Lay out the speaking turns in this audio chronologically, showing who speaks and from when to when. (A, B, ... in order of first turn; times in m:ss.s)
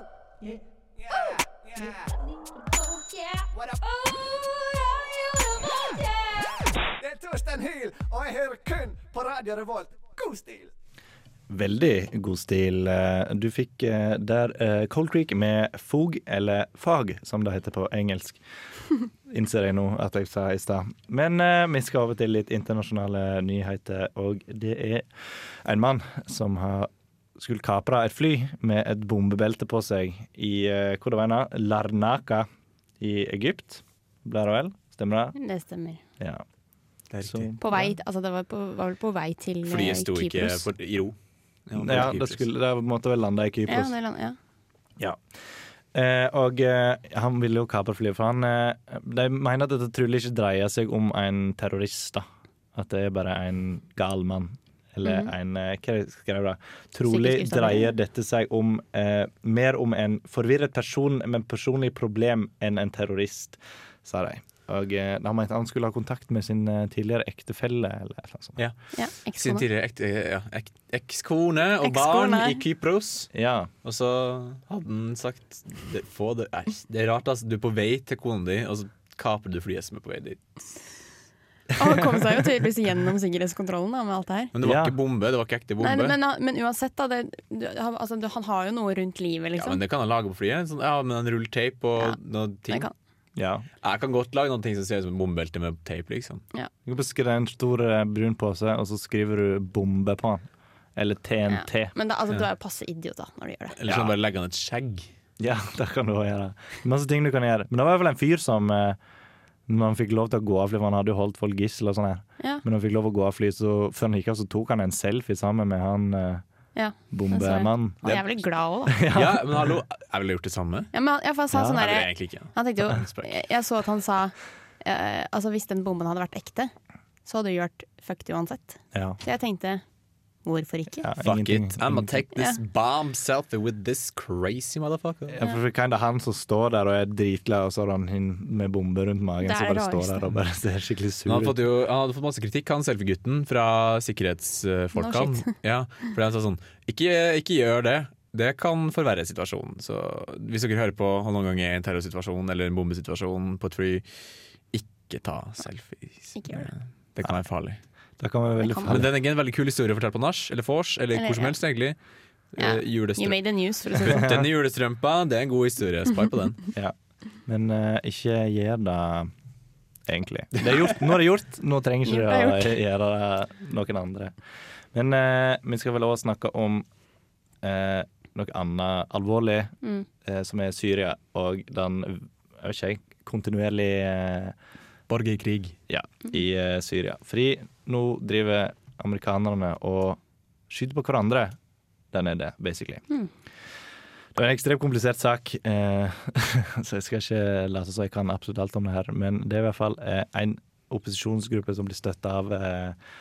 0:11.5-0:18.4 A
0:19.3-0:25.1 A
0:25.6-0:32.5 A
0:33.0-0:35.4 A
0:35.4-0:36.0 B
0:36.2-0:36.4 A
0:37.1-0:37.5 C
0:37.2-0:37.9 A
0:37.6-0:40.7 B
0:39.7-0:41.2 C
0:41.7-0:42.4 C
0:41.8-0:43.9 A
0:43.7-0:44.4 B
0:45.9-1:08.6 A
0:55.0-0:55.3 B
0:57.1-0:57.9 B
1:08.9-1:09.6 B
1:09.4-1:13.3 C
1:11.8-1:12.6 B
1:13.3-1:13.7 A
1:13.8-1:20.6 C
1:21.8-1:24.5 B
1:21.8-1:22.3 A
1:24.6-1:26.2 C
1:24.6-1:25.0 A
1:25.8-1:29.8 B
1:29.6-1:32.9 C
1:33.4-1:33.7 A
1:33.8-1:36.4 C
1:36.9-1:41.9 A
1:41.5-1:43.8 B
1:43.8-1:45.1 C
1:43.9-1:44.1 A
1:45.4-1:49.0 A
1:49.7-1:56.4 A
1:56.8-1:59.0 B
1:57.1-1:58.2 A
1:58.9-1:59.7 A
1:59.1-2:00.9 C
2:00.9-2:06.7 B
2:01.7-2:03.4 C
2:07.3-2:09.8 B
2:08.9-2:09.2 A
2:10.4-2:11.1 B
2:11.0-2:12.2 A
2:11.2-2:15.4 C
2:15.3-2:21.6 A
2:19.4-2:20.3 B
2:21.3-2:34.0 C
2:25.0-2:25.5 B
2:34.7-2:37.8 C
2:36.4-2:36.7 B
2:38.2-2:39.1 A
2:38.6-2:39.0 B
2:38.9-2:42.0 C
2:41.2-2:41.6 B
2:42.5-2:46.6 C
2:42.6-2:44.3 B
2:44.1-2:44.5 A
2:47.5-2:49.3 A
2:50.1-2:54.3 A
2:52.1-2:52.8 B
2:54.9-2:56.9 A
2:57.6-3:04.6 A
3:05.1-3:05.8 C
3:05.9-3:11.6 A
3:12.1-3:13.0 A
3:14.4-3:23.0 A